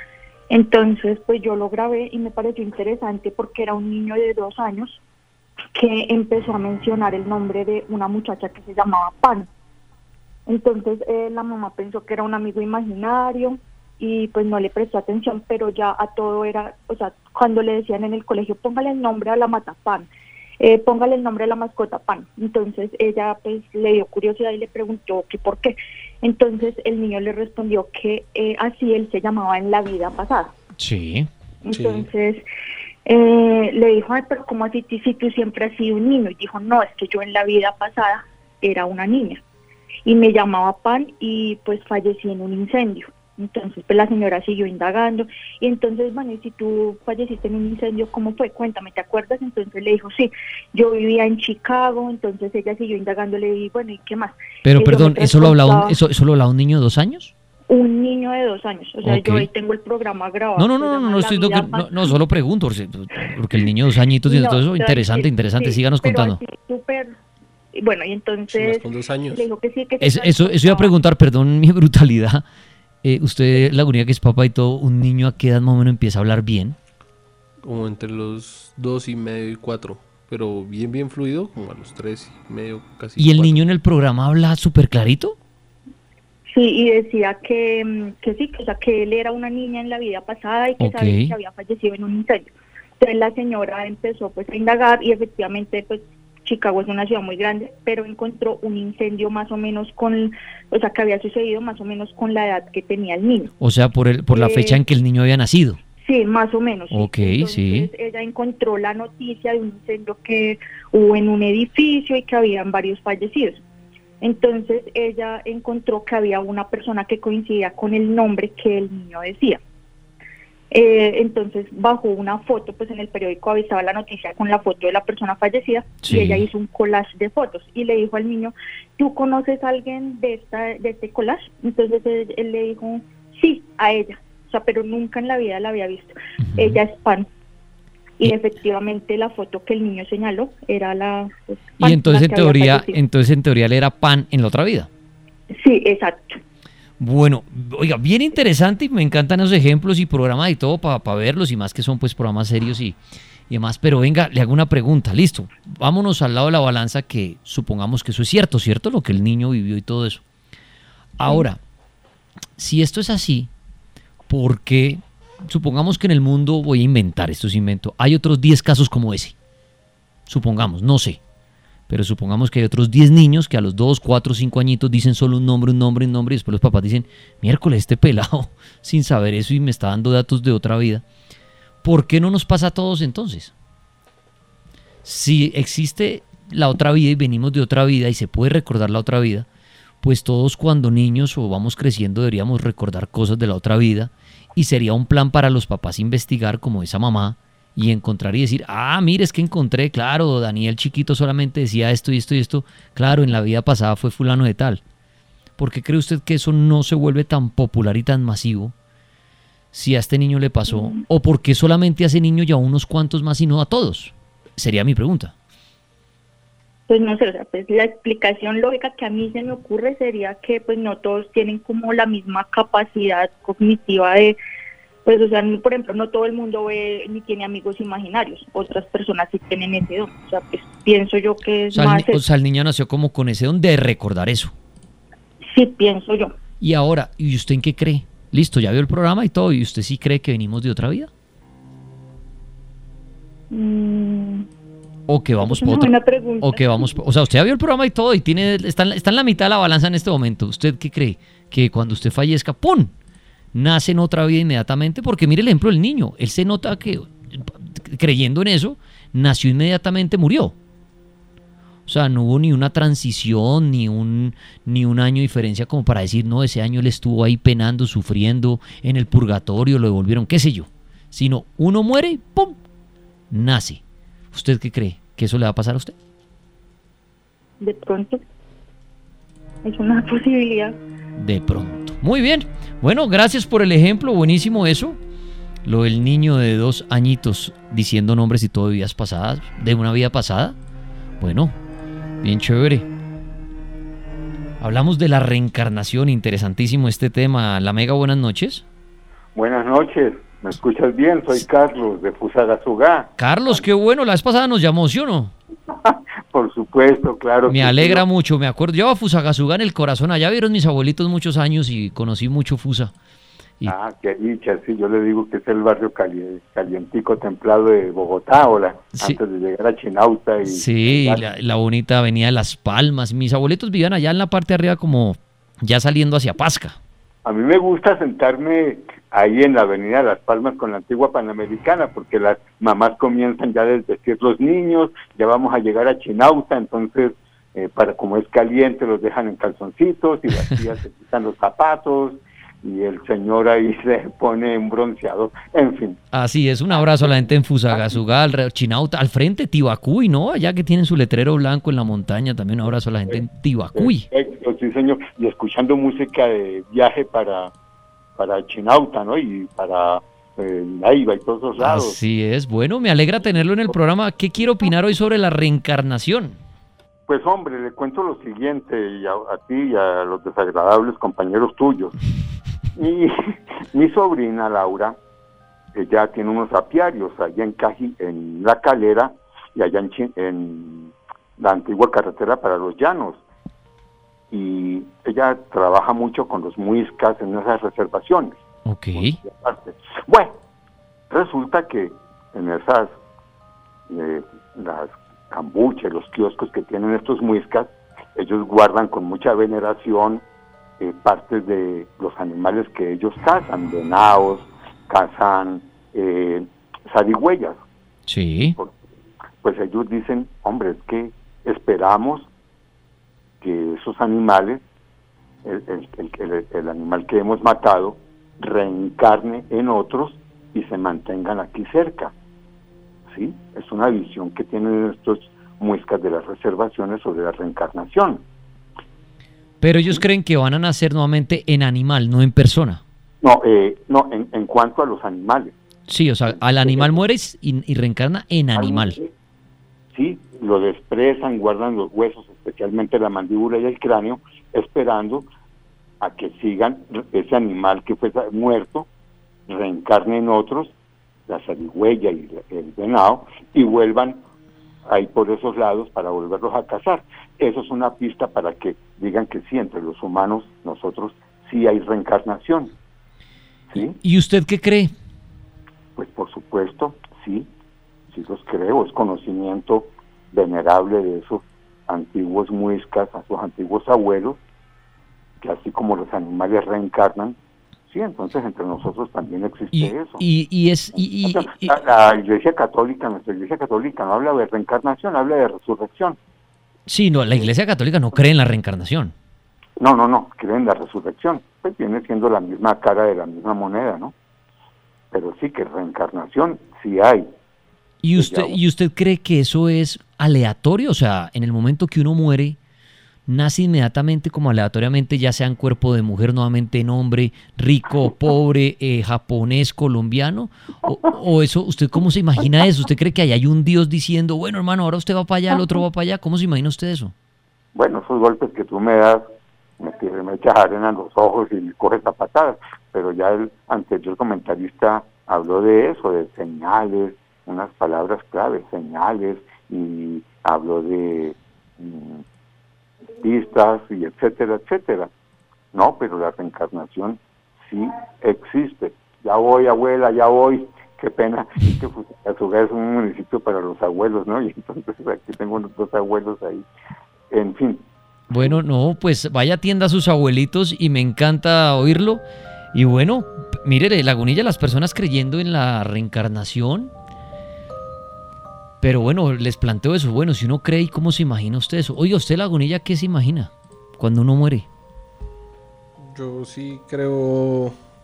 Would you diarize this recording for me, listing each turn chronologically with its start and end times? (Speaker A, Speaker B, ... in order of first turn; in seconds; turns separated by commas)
Speaker A: 0.5-5.0, Speaker A: 5.7-9.5, Speaker A: 10.5-20.1, Speaker A: 20.6-30.5, Speaker B: 30.8-31.3, Speaker A: 31.6-32.5, Speaker C: 31.7-32.1, Speaker A: 33.0-39.4, Speaker A: 40.0-56.0, Speaker B: 54.6-57.3, Speaker A: 57.7-62.2, Speaker B: 59.0-59.5, Speaker B: 60.5-66.4, Speaker A: 64.2-67.1, Speaker A: 67.7-70.9, Speaker C: 68.5-69.5, Speaker B: 70.0-72.4, Speaker B: 73.0-76.8, Speaker C: 77.6-83.6, Speaker B: 83.2-85.3, Speaker A: 86.5-103.5, Speaker B: 90.8-91.3, Speaker B: 103.6-105.8, Speaker A: 104.3-104.8, Speaker A: 106.0-113.6, Speaker B: 106.9-107.9, Speaker A: 114.2-119.6, Speaker A: 120.7-137.3, Speaker B: 126.0-126.4, Speaker B: 136.4-136.8, Speaker A: 138.2-143.0, Speaker B: 141.8-144.9, Speaker A: 145.6-146.4, Speaker B: 147.0-153.0, Speaker B: 153.5-160.2, Speaker B: 161.2-161.6, Speaker B: 162.6-163.5, Speaker B: 164.3-169.3, Speaker B: 170.3-171.2, Speaker B: 171.9-181.0, Speaker B: 181.8-183.5, Speaker B: 185.0-189.4, Speaker B: 190.0-204.8, Speaker B: 205.6-208.7, Speaker B: 209.7-215.3, Speaker A: 210.7-211.0, Speaker A: 216.9-224.4, Speaker A: 225.0-232.2, Speaker B: 231.7-234.5, Speaker A: 235.5-236.3, Speaker B: 236.6-241.1, Speaker A: 243.5-244.5, Speaker B: 245.1-252.9, Speaker A: 245.4-246.9, Speaker B: 253.5-260.5, Speaker B: 261.9-272.6, Speaker B: 273.3-273.8, Speaker B: 274.3-275.9, Speaker A: 277.6-278.2, Speaker A: 279.6-280.8, Speaker B: 281.2-285.0, Speaker B: 285.6-290.6, Speaker B: 291.2-291.6, Speaker B: 292.2-292.9, Speaker B: 294.6-298.6, Speaker D: 299.3-303.6, Speaker B: 303.2-305.3, Speaker D: 305.8-308.0, Speaker B: 307.5-312.9, Speaker D: 313.6-321.2, Speaker B: 318.9-319.2, Speaker B: 320.4-326.8, Speaker D: 327.2-346.0, Speaker B: 346.1-354.1, Speaker D: 353.8-357.5, Speaker D: 358.2-362.0, Speaker B: 361.6-366.4, Speaker D: 367.1-371.9, Speaker D: 372.8-375.0, Speaker D: 375.7-383.2, Speaker D: 384.3-388.3, Speaker B: 388.6-389.2, Speaker D: 389.0-390.3, Speaker D: 391.1-393.0, Speaker D: 393.9-400.2, Speaker D: 400.8-407.6, Speaker B: 408.1-408.6, Speaker D: 408.6-408.8, Speaker D: 409.4-412.3, Speaker D: 413.4-414.6, Speaker D: 415.4-422.1, Speaker D: 423.1-428.2, Speaker B: 429.6-432.8, Speaker D: 433.2-435.5, Speaker B: 435.9-439.0, Speaker D: 436.3-437.0, Speaker D: 438.6-439.1, Speaker D: 439.9-445.3, Speaker D: 446.0-448.9, Speaker D: 449.5-450.7, Speaker D: 451.3-454.2, Speaker D: 454.9-462.7, Speaker B: 463.7-464.9, Speaker D: 465.9-467.5, Speaker D: 468.1-474.4, Speaker D: 475.4-477.4, Speaker D: 477.9-480.2, Speaker B: 479.7-481.8, Speaker D: 481.2-486.2, Speaker B: 486.9-489.1, Speaker D: 489.8-494.1, Speaker D: 495.1-497.3, Speaker B: 498.0-502.6, Speaker D: 498.1-498.6, Speaker B: 503.3-517.1, Speaker D: 517.7-519.3, Speaker D: 519.8-532.2, Speaker D: 533.2-535.1, Speaker D: 535.7-546.6, Speaker D: 547.3-547.8, Speaker B: 548.3-552.2, Speaker B: 552.7-556.9, Speaker B: 558.8-564.6, Speaker C: 566.0-567.8